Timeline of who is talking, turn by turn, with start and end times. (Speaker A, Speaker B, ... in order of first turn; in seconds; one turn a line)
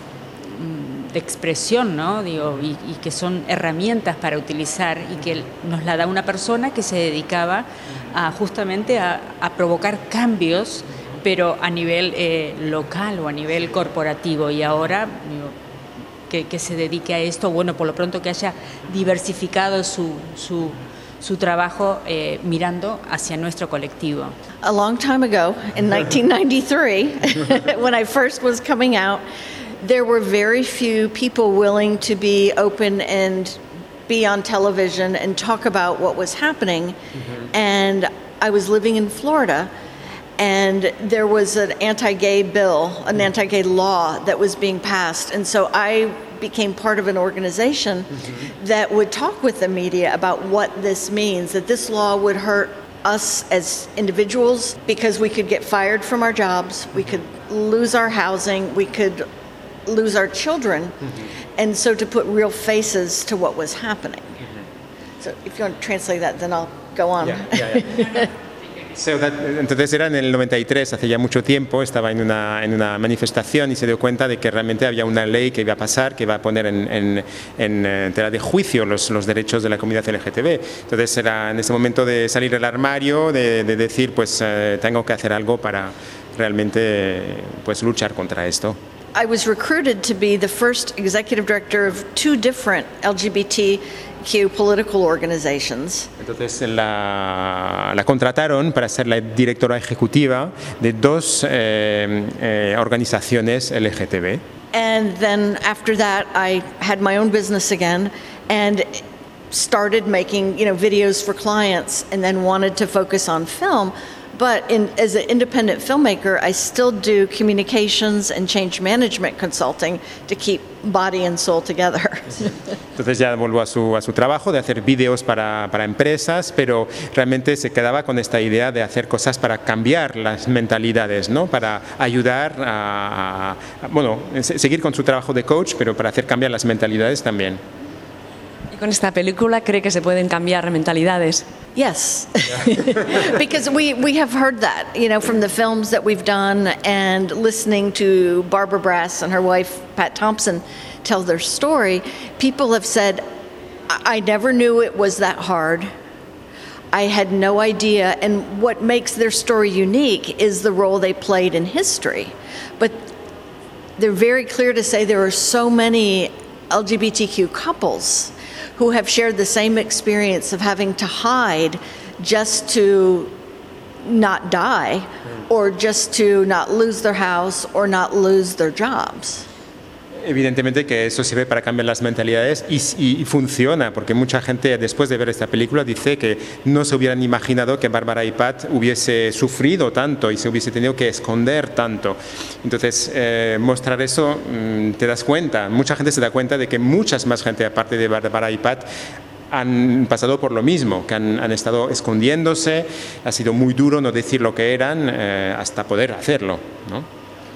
Speaker A: 0.4-15.5
Speaker A: 16.3-24.4
Speaker B: 24.6-29.2
Speaker B: 29.8-37.0
Speaker B: 37.5-39.7
Speaker B: 40.4-59.2
Speaker B: 59.9-61.0
Speaker B: 61.6-64.4
Speaker B: 65.2-68.3
Speaker C: 67.2-67.9
Speaker C: 68.9-88.8
Speaker B: 89.2-96.1
Speaker C: 96.2-104.4
Speaker B: 104.7-108.9
Speaker B: 109.5-122.5
Speaker C: 123.0-137.6
Speaker D: 138.7-141.5
Speaker B: 141.8-153.2
Speaker B: 153.9-155.9
Speaker B: 156.9-163.0
Speaker B: 164.0-173.3
Speaker B: 174.1-179.5
Speaker C: 180.2-198.9
Speaker C: 199.5-207.1